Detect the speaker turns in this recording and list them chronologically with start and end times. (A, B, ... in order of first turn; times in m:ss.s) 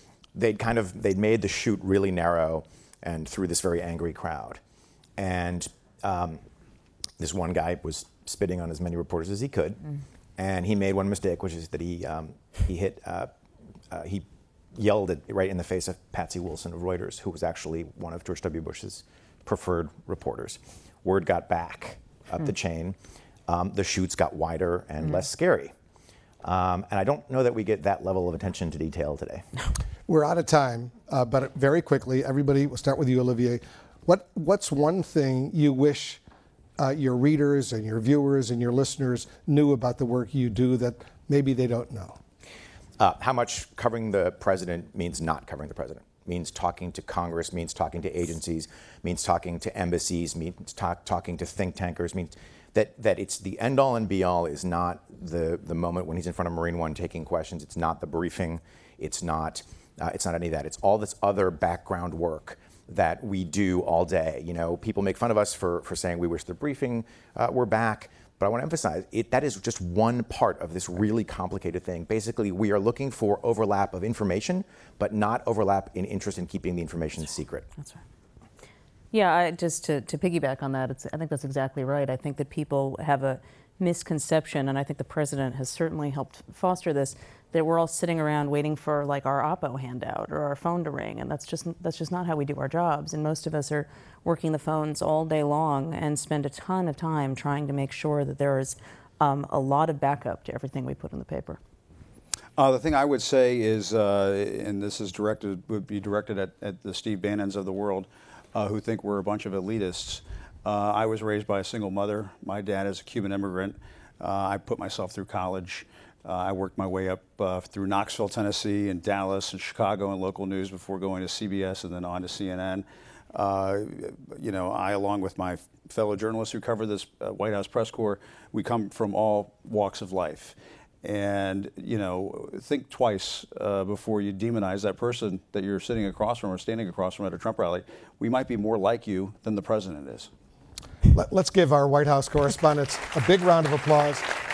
0:00.3-0:04.6 A
0:05.2-0:06.4 A
0:07.2-0:09.8 A
0:10.4-0:13.3 A
0:13.9-0:23.0 A
0:23.5-0:25.7 A
0:26.4-0:29.4 A
0:30.1-0:36.2 B
0:36.8-0:42.2 B
0:43.0-1:17.7 A
1:19.1-1:41.6 C
1:42.6-2:20.3 D
2:21.1-2:24.4 B